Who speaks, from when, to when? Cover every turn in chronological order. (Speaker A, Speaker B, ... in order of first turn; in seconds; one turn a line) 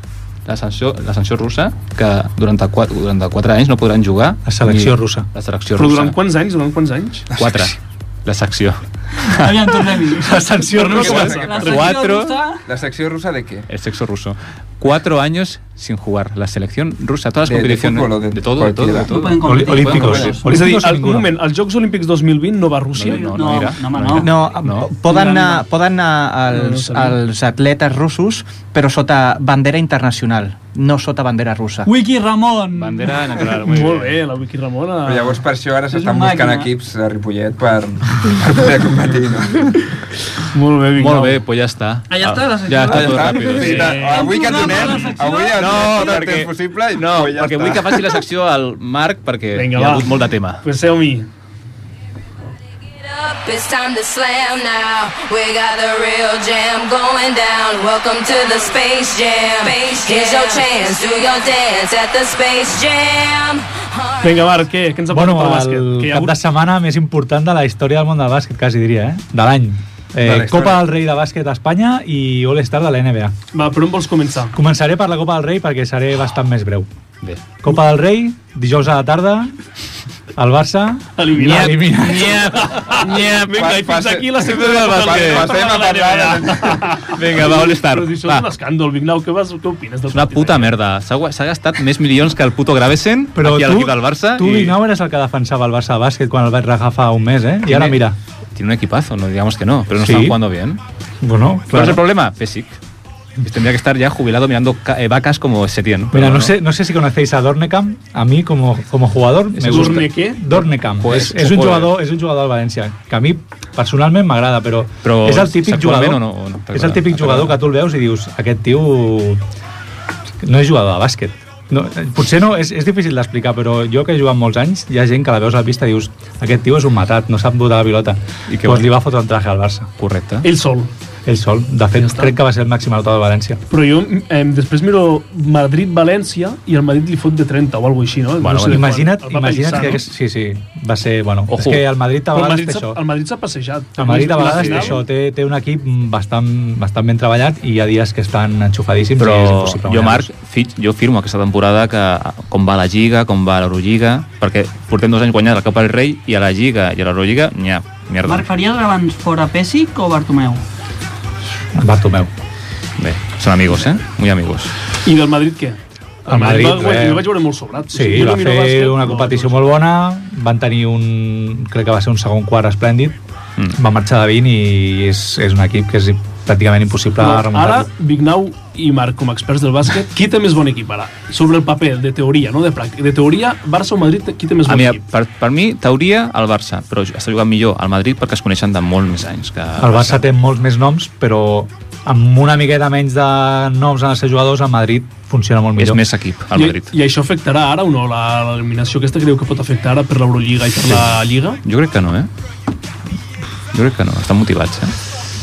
Speaker A: 0.5-6.2
Speaker B: 4.5-5.2
Speaker C: 5.7-7.3
Speaker A: 7.3-9.4
Speaker D: 9.2-12.6
Speaker B: 10.1-11.2
Speaker C: 10.7-11.7
Speaker E: 10.8-11.9
Speaker A: 11.5-12.4
Speaker E: 12.7-13.7
Speaker A: 13.7-20.4
Speaker E: 17.4-19.2
Speaker D: 19.1-20.5
Speaker B: 19.4-21.3
Speaker C: 20.5-23.4
Speaker A: 22.9-24.9
Speaker D: 23.1-25.6
Speaker F: 24.2-31.9
Speaker C: 26.5-27.2
Speaker D: 31.8-33.2
Speaker A: 32.7-34.2
Speaker C: 33.6-35.4
Speaker E: 35.0-39.8
Speaker D: 35.9-36.7
Speaker C: 40.5-41.4
Speaker A: 41.0-43.9
Speaker D: 42.1-45.7
Speaker E: 42.9-48.1
Speaker C: 43.6-44.6
Speaker A: 45.5-50.6
Speaker C: 49.5-51.3
Speaker G: 53.0-64.4
Speaker C: 64.2-66.3
Speaker B: 65.1-73.3
Speaker E: 70.2-70.8
Speaker C: 73.5-74.5
Speaker B: 74.5-76.9
Speaker B: 77.6-79.5
Speaker B: 80.3-82.4
Speaker C: 81.2-90.7
Speaker A: 81.4-83.7
Speaker E: 83.5-87.0
Speaker A: 84.5-85.6
Speaker A: 87.1-88.5
Speaker A: 90.1-94.8
Speaker B: 93.3-98.2
Speaker A: 97.7-98.0
Speaker A: 98.5-100.8
Speaker B: 100.0-100.4
Speaker B: 101.2-102.0
Speaker A: 101.7-102.8
Speaker A: 103.4-106.5
Speaker B: 106.1-116.2
Speaker A: 109.5-110.1
Speaker C: 109.7-110.5
Speaker A: 111.0-111.9
Speaker A: 115.0-117.6
Speaker B: 116.7-119.4
Speaker B: 120.4-129.9
Speaker A: 128.5-128.9
Speaker A: 130.0-130.5
Speaker C: 130.4-130.9
Speaker B: 131.2-133.6
Speaker C: 131.9-132.3
Speaker C: 133.7-140.0
Speaker A: 138.4-138.8
Speaker B: 138.7-143.0
Speaker A: 141.5-141.8
Speaker C: 142.3-145.0
Speaker B: 144.0-150.3
Speaker A: 144.4-145.0
Speaker A: 149.2-158.5
Speaker D: 158.2-160.6
Speaker B: 161.7-162.3
Speaker A: 163.0-164.7
Speaker C: 165.0-169.6
Speaker B: 166.2-167.3
Speaker B: 167.9-173.2
Speaker B: 173.8-177.9
Speaker C: 177.2-185.0
Speaker A: 184.7-190.3
Speaker B: 189.8-196.0
Speaker A: 195.8-196.9
Speaker C: 196.5-201.6
Speaker A: 200.8-202.3
Speaker A: 203.7-204.9